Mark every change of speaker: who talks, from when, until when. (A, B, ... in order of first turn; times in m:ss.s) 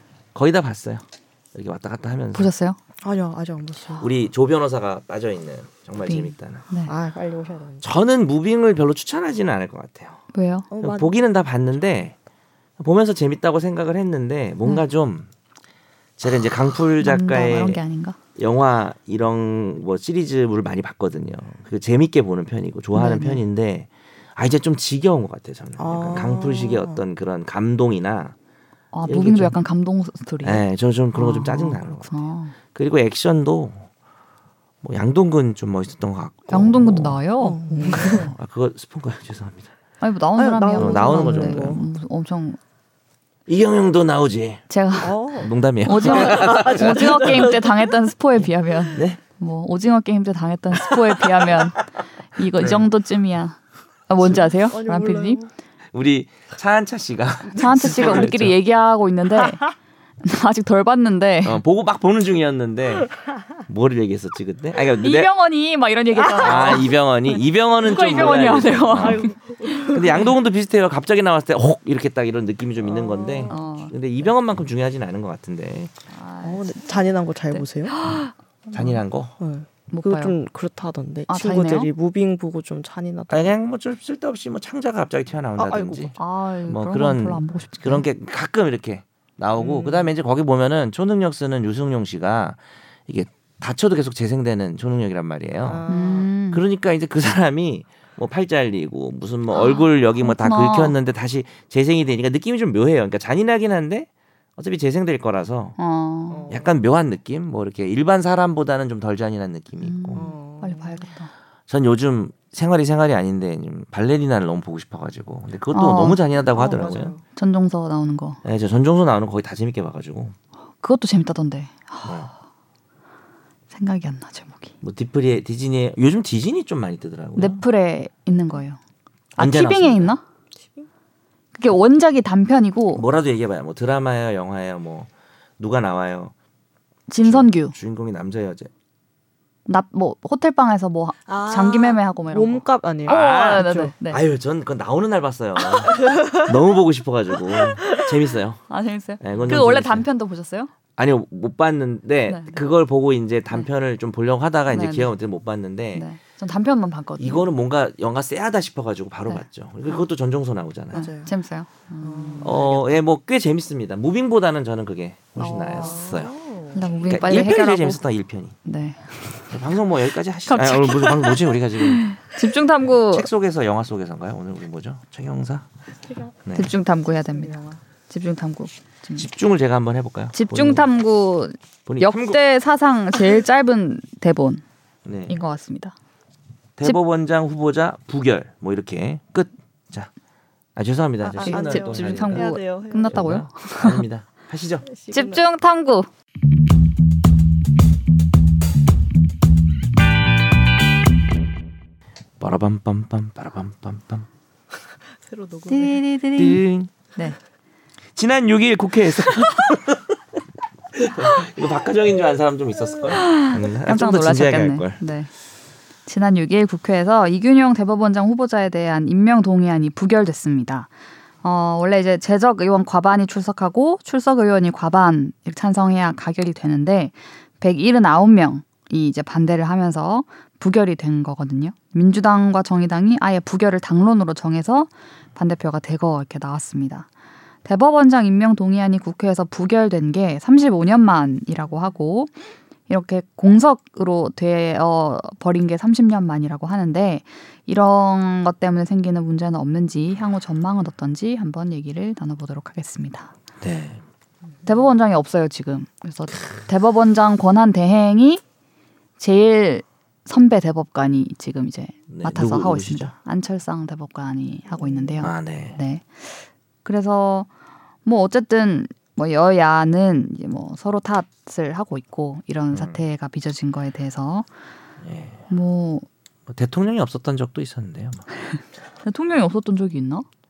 0:00.3-0:02.5 A
0:02.3-0:02.8 B
0:03.0-0:04.1 C
0:04.0-0:06.6 A
0:06.0-0:06.9 B
0:06.9-0:07.9 C
0:07.8-0:10.2 A
0:10.3-0:10.7 B
0:10.7-0:11.1 C
0:10.8-0:12.2 A
0:12.8-0:15.3 A
0:16.2-0:17.8 A
0:17.0-0:18.2 B
0:18.4-0:28.4 A
0:22.9-0:23.4 B
0:25.8-0:27.0 C
0:28.9-0:32.6 B
0:29.0-0:29.6 A
0:30.4-0:33.9 A
0:34.8-0:37.2 A
0:36.5-0:38.3 B
0:37.4-0:38.3 C
0:37.9-0:39.7 A
0:40.0-0:42.6 B
0:40.4-0:41.8 C
0:40.8-0:41.8 A
0:43.5-0:44.6 A
0:44.7-0:45.2 B
0:45.0-0:47.7 C
0:45.4-0:47.5 A
0:45.8-0:51.8 B
0:48.9-0:49.2 A
0:52.3-0:55.4 B
0:52.6-0:52.8 A
0:54.2-0:55.5 C
0:55.9-0:58.6 A
0:57.6-0:59.7 B
1:00.2-1:01.6 B
1:01.4-1:05.3 A
1:05.0-1:07.0 B
1:06.3-1:06.7 C
1:06.3-1:09.3 A
1:07.8-1:10.0 B
1:08.1-1:10.3 C
1:09.8-1:15.9 A
1:12.8-1:13.6 C
1:13.5-1:13.9 B
1:16.1-1:19.0 B
1:16.4-1:18.0 C
1:18.7-1:19.3 A
1:19.4-1:23.5 C
1:19.9-1:20.4 B
1:21.3-1:21.9 B
1:23.3-1:26.2 A
1:25.6-1:26.2 C
1:26.2-1:28.0 B
1:26.7-1:35.8 A
1:29.6-1:30.1 C
1:35.6-1:36.3 C
1:35.9-1:36.6 B
1:36.5-1:45.8 A
1:39.5-1:41.0 B
1:45.8-1:46.5 B
1:46.3-1:46.8 C
1:46.5-1:50.2 A
1:49.8-1:51.3 B
1:50.1-1:51.0 C
1:51.7-1:57.2 A
1:55.7-1:58.4 B
1:56.3-1:57.2 C
1:58.4-2:00.4 A
2:00.8-2:02.3 B
2:02.0-2:02.3 A
2:03.7-2:04.7 B
2:04.8-2:07.6 A
2:07.4-2:08.8 B
2:09.4-2:10.2 A
2:09.4-2:10.2 B
2:10.6-2:10.9 C
2:11.6-2:13.0 B
2:12.9-2:16.3 A
2:17.1-2:17.8 B
2:17.2-2:18.7 A
2:19.7-2:24.2 B
2:21.3-2:23.9 C
2:23.0-2:28.6 A
2:25.8-2:26.4 C
2:27.5-2:28.0 C
2:28.7-2:30.7 B
2:29.2-2:30.1 A
2:31.0-2:36.1 A
2:32.3-2:32.6 B
2:34.7-2:35.1 B
2:36.0-2:37.5 B
2:37.2-2:41.1 A
2:39.3-2:40.0 B
2:40.9-2:42.6 B
2:40.9-2:41.3 C
2:42.0-2:43.0 C
2:42.4-2:46.3 A
2:45.4-2:46.0 B
2:45.6-2:46.9 C
2:46.8-2:48.0 B
2:47.0-2:48.6 A
2:48.6-2:49.5 B
2:49.5-2:52.1 A
2:50.5-2:53.3 B
2:53.1-2:55.7 A
2:56.1-2:56.3 C
2:56.4-2:56.7 A
2:56.5-2:59.3 B
2:57.3-2:57.8 C
2:59.2-3:00.9 A
3:00.3-3:04.6 B
3:01.9-3:02.4 A
3:05.0-3:05.4 A
3:05.3-3:06.0 B
3:06.8-3:10.1 A
3:10.8-3:12.5 A
3:11.2-3:13.4 C
3:11.4-3:14.0 B
3:13.1-3:14.9 A
3:14.9-3:15.4 C
3:15.1-3:16.1 B
3:22.4-3:24.3 A
3:25.3-3:26.0 C
3:25.7-3:26.6 B
3:26.4-3:26.9 A
3:28.2-3:30.2 A
3:30.9-3:35.0 A
3:33.1-3:35.3 B
3:36.1-3:40.9 B
3:41.4-3:57.1 B
3:57.6-4:02.3 B
4:02.9-4:13.3 B
4:13.6-4:14.0 A
4:14.6-4:18.4 B
4:19.2-4:27.5 B
4:22.1-4:23.1 A
4:25.2-4:25.8 A
4:28.0-4:34.5 B
4:32.7-4:33.0 A
4:35.0-4:35.4 A
4:35.5-4:36.1 B
4:36.5-4:38.2 A
4:39.0-4:40.3 B